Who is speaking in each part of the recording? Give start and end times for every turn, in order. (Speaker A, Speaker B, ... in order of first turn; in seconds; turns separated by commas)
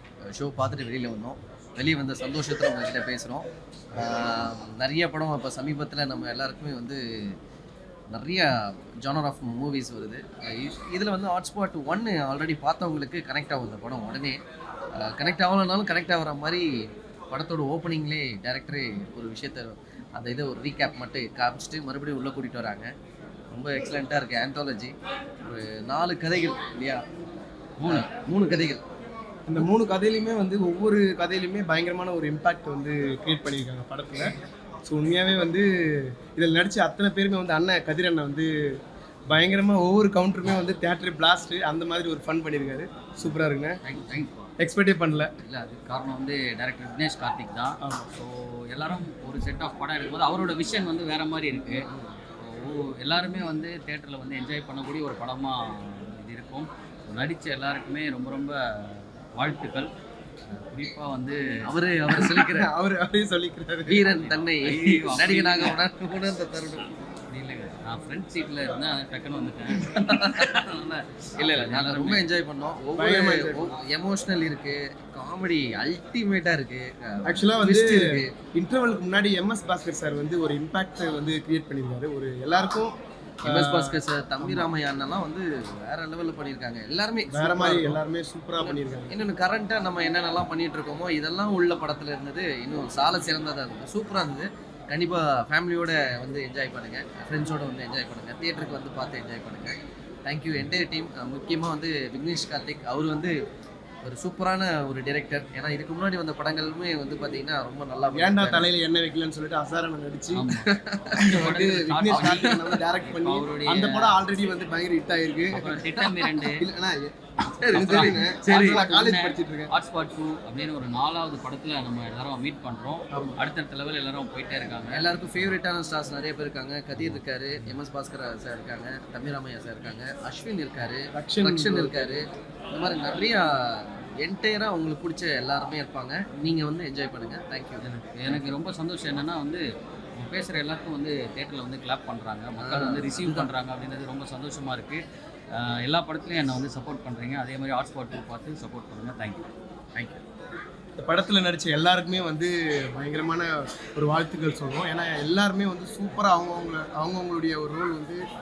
Speaker A: 0.3-7.0, Speaker A: 8.1-14.4, Speaker A: 15.0-16.6, Speaker A: 17.3-22.9, Speaker A: 23.5-27.0, Speaker B: 27.8-28.1, Speaker A: 27.9-28.8, Speaker C: 29.5-34.3, Speaker C: 34.8-43.8, Speaker B: 43.8-44.5, Speaker C: 44.6-45.3, Speaker B: 45.5-51.8, Speaker C: 47.8-48.1, Speaker B: 52.4-59.9, Speaker B: 60.5-61.6, Speaker A: 61.7-62.7, Speaker C: 62.1-64.0, Speaker A: 63.9-66.9, Speaker B: 64.1-65.8, Speaker B: 67.3-72.3, Speaker A: 71.4-78.3, Speaker C: 73.0-73.6, Speaker C: 77.2-84.0, Speaker A: 83.4-88.0, Speaker C: 87.3-89.1, Speaker A: 88.5-103.3, Speaker A: 104.0-108.7, Speaker C: 108.1-110.4, Speaker B: 110.3-110.7, Speaker A: 110.6-111.3, Speaker B: 111.2-114.2, Speaker C: 111.5-115.5, Speaker A: 112.1-112.8, Speaker B: 115.5-116.7, Speaker C: 116.6-117.1, Speaker A: 117.6-118.9, Speaker B: 117.7-125.5, Speaker C: 118.1-119.7, Speaker C: 123.1-123.4, Speaker A: 124.9-137.8, Speaker C: 131.1-132.2, Speaker B: 137.8-139.6, Speaker B: 140.2-145.0, Speaker A: 142.6-143.5, Speaker B: 145.6-150.2, Speaker C: 151.0-158.2